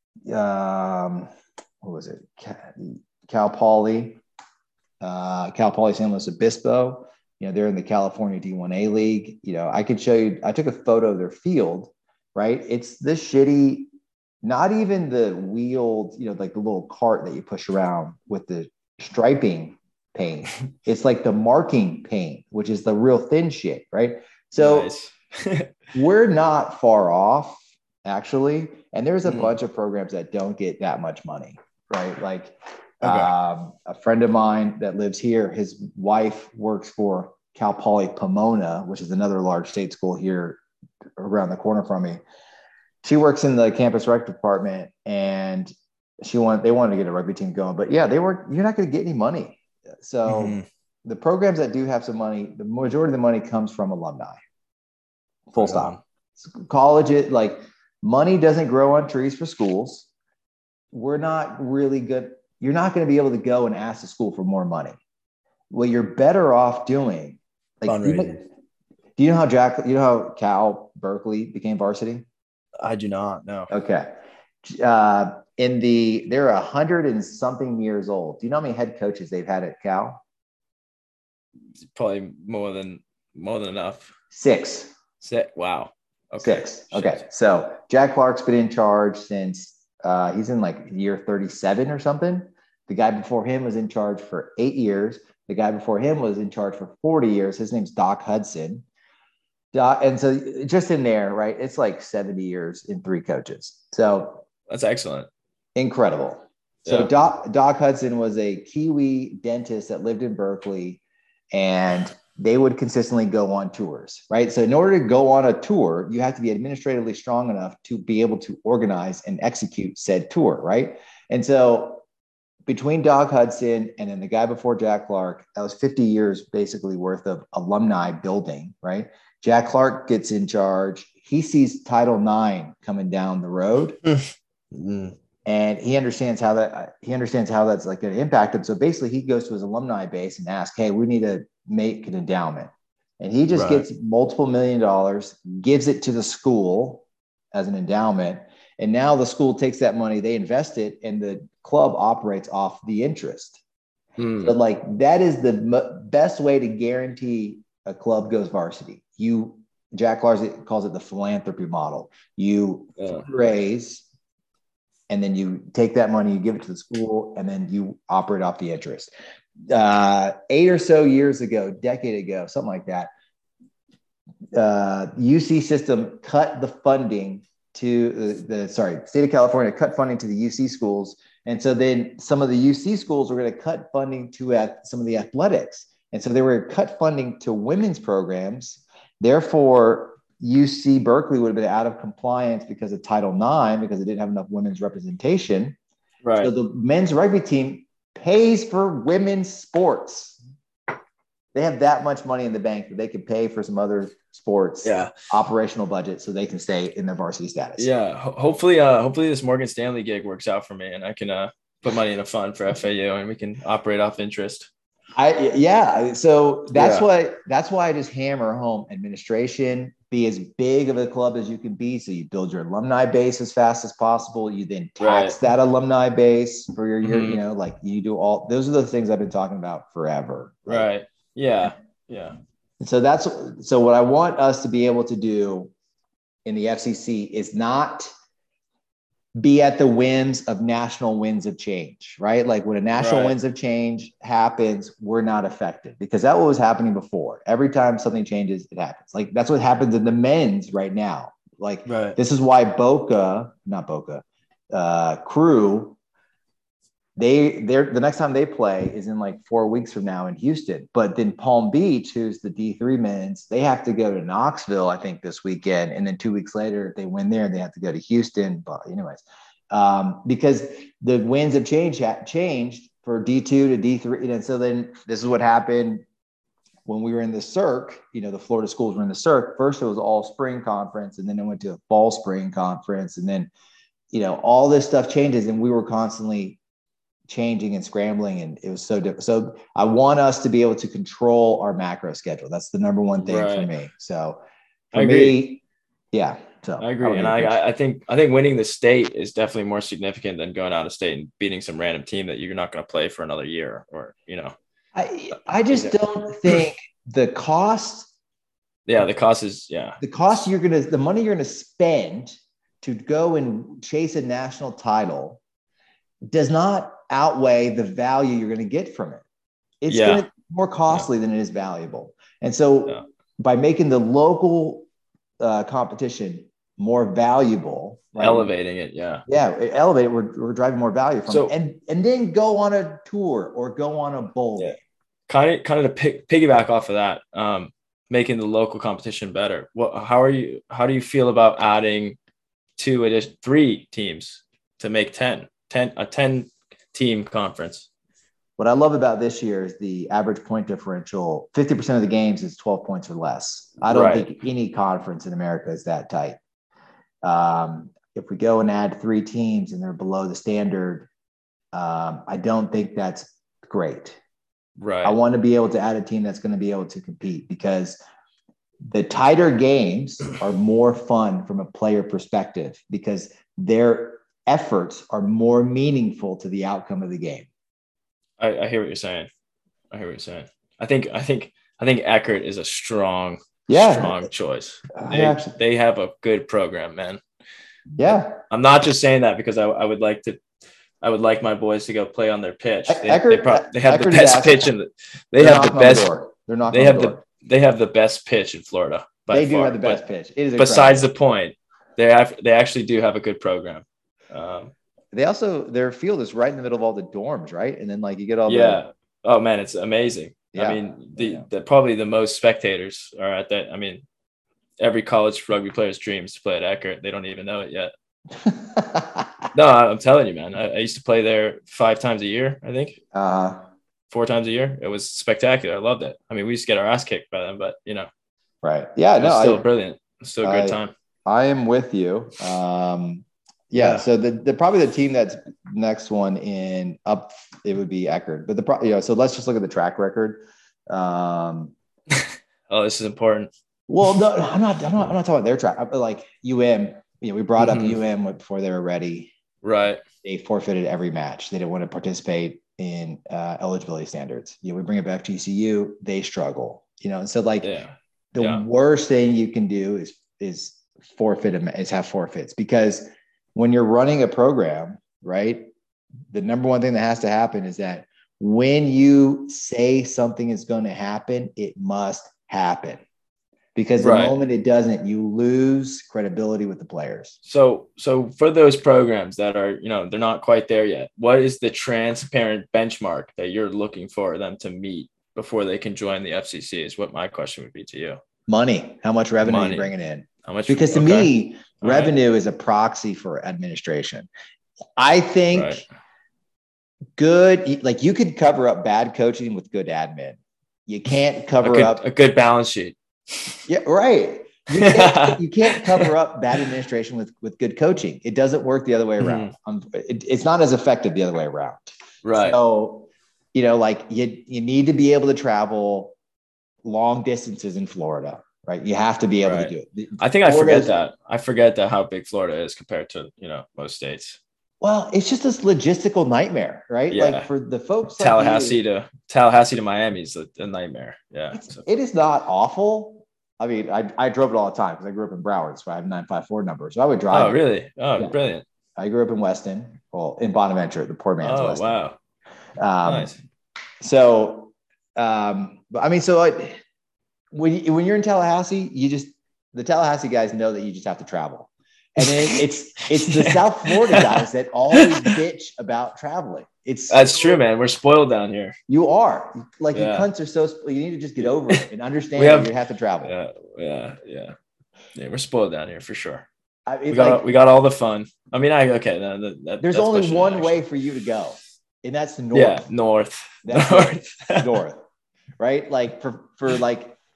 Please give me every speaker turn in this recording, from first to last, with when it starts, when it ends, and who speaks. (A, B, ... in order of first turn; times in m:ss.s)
0:00.2-0:01.3 A
0:01.8-0:04.2 A
0:05.0-0:13.9 A
0:14.4-0:24.9 A
0:24.6-0:25.7 B
0:25.9-0:40.6 A
0:29.2-0:29.5 B
0:33.0-0:33.3 B
0:41.2-0:42.2 A
0:43.0-0:54.4 A
0:50.3-0:50.6 B
0:55.5-1:00.1 A
0:55.6-0:56.0 B
1:00.9-1:04.9 A
1:05.7-1:08.4 A
1:07.9-1:08.4 B
1:09.2-1:12.2 A
1:12.8-1:13.7 B
1:13.7-1:14.1 A
1:14.6-1:20.2 A
1:21.9-1:24.1 B
1:24.3-1:24.9 A
1:25.2-1:27.2 B
1:26.4-1:38.8 A
1:39.7-1:44.4 A
1:44.7-1:45.3 B
1:45.8-2:02.0 A
1:46.8-1:47.1 B
2:02.7-2:14.0 A
2:14.0-2:15.2 B
2:15.4-2:33.6 A
2:23.5-2:23.8 B
2:34.2-2:34.6 B
2:34.4-2:44.0 A
2:43.0-2:43.3 B
2:45.1-2:49.1 A
2:49.6-2:53.1 A
2:54.5-3:15.8 A
3:16.2-3:16.5 B
3:16.4-3:20.4 A
3:21.5-3:27.9 A
3:24.8-3:25.1 B
3:27.8-3:34.7 B
3:35.2-3:50.9 A
3:36.7-3:37.0 B
3:45.0-3:45.4 B
3:47.0-3:47.4 B
3:50.7-3:52.3 B
3:52.8-3:55.7 A
3:56.4-3:58.1 A
3:59.4-4:16.0 A
4:02.9-4:03.4 B
4:11.9-4:12.2 B
4:17.2-4:36.0 A
4:36.8-4:43.5 A
4:44.1-4:46.6 A
4:47.3-4:54.4 A
4:53.2-4:53.7 B
4:54.9-4:57.6 A
4:54.9-4:55.4 B
4:56.8-5:04.5 B
5:04.9-5:08.1 A
5:08.8-5:10.0 B
5:10.0-5:15.4 A
5:16.3-5:19.2 A
5:19.8-5:24.9 A
5:19.9-5:20.3 B
5:25.4-5:28.5 A
5:28.2-5:29.2 B
5:29.3-5:34.8 A
5:31.3-5:31.5 B
5:35.3-5:42.2 B
5:42.8-5:47.9 B
5:48.6-5:56.4 A
5:53.9-5:54.3 B
5:57.2-6:01.1 A
6:01.7-6:04.2 A
6:04.8-6:05.2 B
6:05.0-6:08.0 A
6:08.8-6:17.5 A
6:18.4-6:19.3 B
6:19.9-6:27.2 B
6:23.7-6:24.2 A
6:25.0-6:25.5 A
6:28.0-6:28.4 A
6:28.5-6:30.4 B
6:31.0-6:36.2 B
6:32.9-6:34.7 A
6:35.4-6:37.2 A
6:36.7-6:40.0 B
6:39.3-6:41.0 A
6:40.6-6:44.7 B
6:45.1-6:48.8 A
6:48.5-6:54.0 B
6:50.5-6:51.4 A
6:54.8-6:57.9 B
6:58.4-6:59.3 A
6:59.5-7:03.0 B
7:03.1-7:03.6 A
7:04.1-7:08.1 B
7:08.6-7:09.6 A
7:09.2-7:10.9 B
7:10.4-7:21.7 A
7:13.7-7:14.0 B
7:22.1-7:23.5 B
7:23.9-7:29.3 A
7:27.6-7:28.0 B
7:29.6-7:30.0 B
7:30.2-7:37.7 A
7:37.6-7:38.6 B
7:38.3-7:45.7 A
7:46.3-7:53.0 A
7:53.7-7:57.4 A
7:54.0-7:54.4 B
7:57.4-8:08.2 B
8:08.5-8:14.3 A
8:09.4-8:09.9 B
8:10.4-8:11.3 B
8:11.8-8:12.1 B
8:15.0-8:15.8 A
8:15.5-8:15.8 B
8:17.2-8:22.0 A
8:21.6-8:23.6 B
8:23.7-8:36.1 A
8:24.7-8:26.1 B
8:29.2-8:29.5 B
8:32.2-8:32.6 B
8:36.8-8:40.9 A
8:39.4-8:44.4 B
8:44.8-8:48.8 A
8:47.1-8:47.5 B
8:48.2-8:51.8 B
8:51.5-8:57.6 A
8:57.3-8:58.6 B
8:59.0-9:02.0 A
9:01.4-9:02.2 B
9:02.8-9:03.3 A
9:03.0-9:03.4 B
9:04.0-9:06.8 A
9:07.5-9:17.6 A
9:12.2-9:12.6 B
9:13.2-9:14.4 B
9:14.9-9:15.3 B
9:17.1-9:18.7 B
9:18.9-9:23.3 A
9:19.9-9:20.3 B
9:21.7-9:22.7 B
9:23.2-9:24.5 B
9:25.1-9:26.5 B
9:26.8-9:27.4 A
9:27.1-9:30.8 B
9:29.8-9:32.8 A
9:32.5-9:34.8 B
9:33.6-9:35.0 A
9:35.6-9:37.2 A